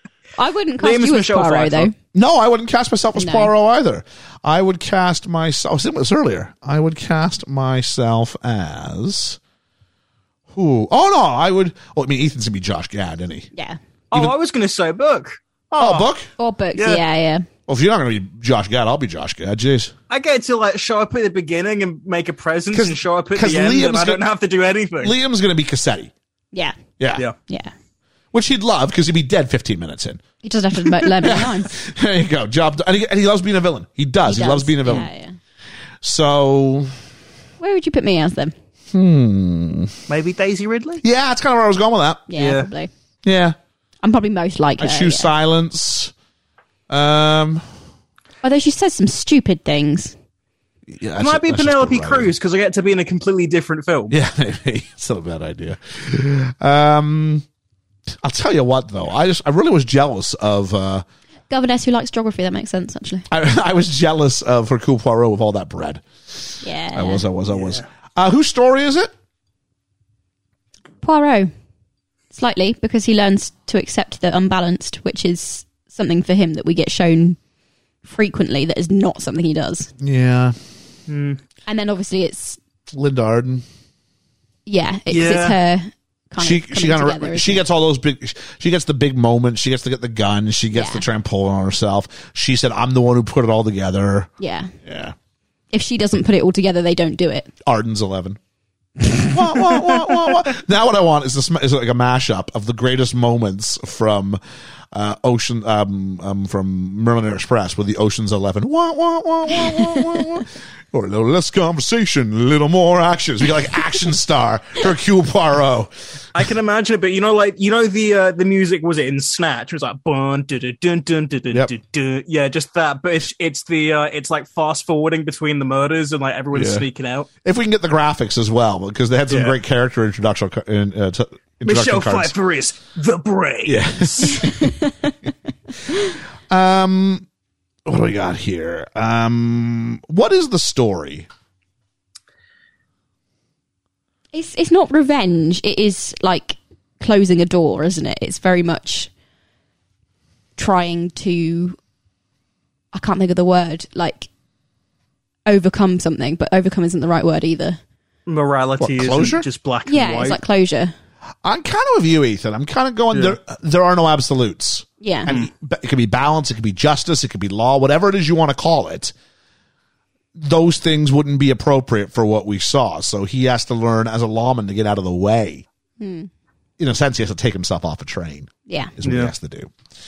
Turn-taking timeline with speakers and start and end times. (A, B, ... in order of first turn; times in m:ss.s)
0:00.4-0:01.9 A
0:00.8-0:01.9 B
0:02.1-0:09.4 C
0:03.2-0:03.5 A
0:10.5-0:13.5 C
0:14.1-0:16.1 B
0:15.8-0:16.3 C
0:16.4-0:17.5 A
0:16.8-0:17.0 B
0:17.7-0:19.9 C
0:20.1-0:25.2 B
0:22.7-0:24.2 C
0:25.0-0:26.1 C
0:27.0-0:27.3 C
0:27.5-0:27.7 A
0:28.3-0:30.2 C
0:30.4-0:31.7 A
0:31.2-0:35.1 C
0:34.2-0:35.4 A
0:36.0-0:37.0 C
0:37.6-0:38.5 A
0:38.9-0:39.9 C
0:40.1-0:41.0 B
0:41.0-0:42.3 C
0:42.3-0:42.9 A
0:42.3-0:42.7 B
0:43.2-0:43.6 C
0:44.0-0:45.3 A
0:44.8-0:46.1 C
0:46.9-0:47.6 C
0:48.4-0:50.2 A
0:50.9-0:52.3 C
0:51.2-0:54.2 B
0:54.1-0:57.4 C
0:58.2-1:01.0 C
1:01.5-1:03.3 A
1:03.3-1:09.1 C
1:06.6-1:07.2 A
1:07.5-1:07.8 B
1:11.0-1:11.5 A
1:12.3-1:17.4 A
1:18.0-1:19.9 A
1:20.0-1:20.6 C
1:21.1-1:21.4 B
1:21.7-1:22.6 A
1:22.9-1:23.6 C
1:24.7-1:27.6 A
1:25.1-1:25.6 B
1:26.4-1:34.3 C
1:30.7-1:31.0 A
1:34.4-1:34.7 A
1:34.8-1:35.2 C
1:35.7-1:37.5 A
1:37.6-1:38.4 C
1:39.1-1:44.4 C
1:44.9-1:55.9 C
1:56.4-2:07.3 B
2:06.5-2:06.9 C
2:07.4-2:12.3 C
2:09.3-2:09.6 B
2:11.6-2:14.3 B
2:13.6-2:14.8 C
2:14.4-2:15.1 A
2:16.5-2:17.3 C
2:17.9-2:21.3 C
2:24.3-2:29.1 A
2:30.6-2:31.8 A
2:32.9-2:34.3 A
2:35.5-2:37.8 A
2:38.3-2:40.4 B
2:38.8-2:39.5 C
2:39.9-2:40.9 A
2:41.4-2:49.1 C
2:43.1-2:43.4 B
2:45.0-2:45.3 A
2:50.4-2:55.6 C
2:56.0-2:56.3 A
2:56.8-2:59.7 C
2:58.7-2:58.9 A
2:59.0-2:59.3 B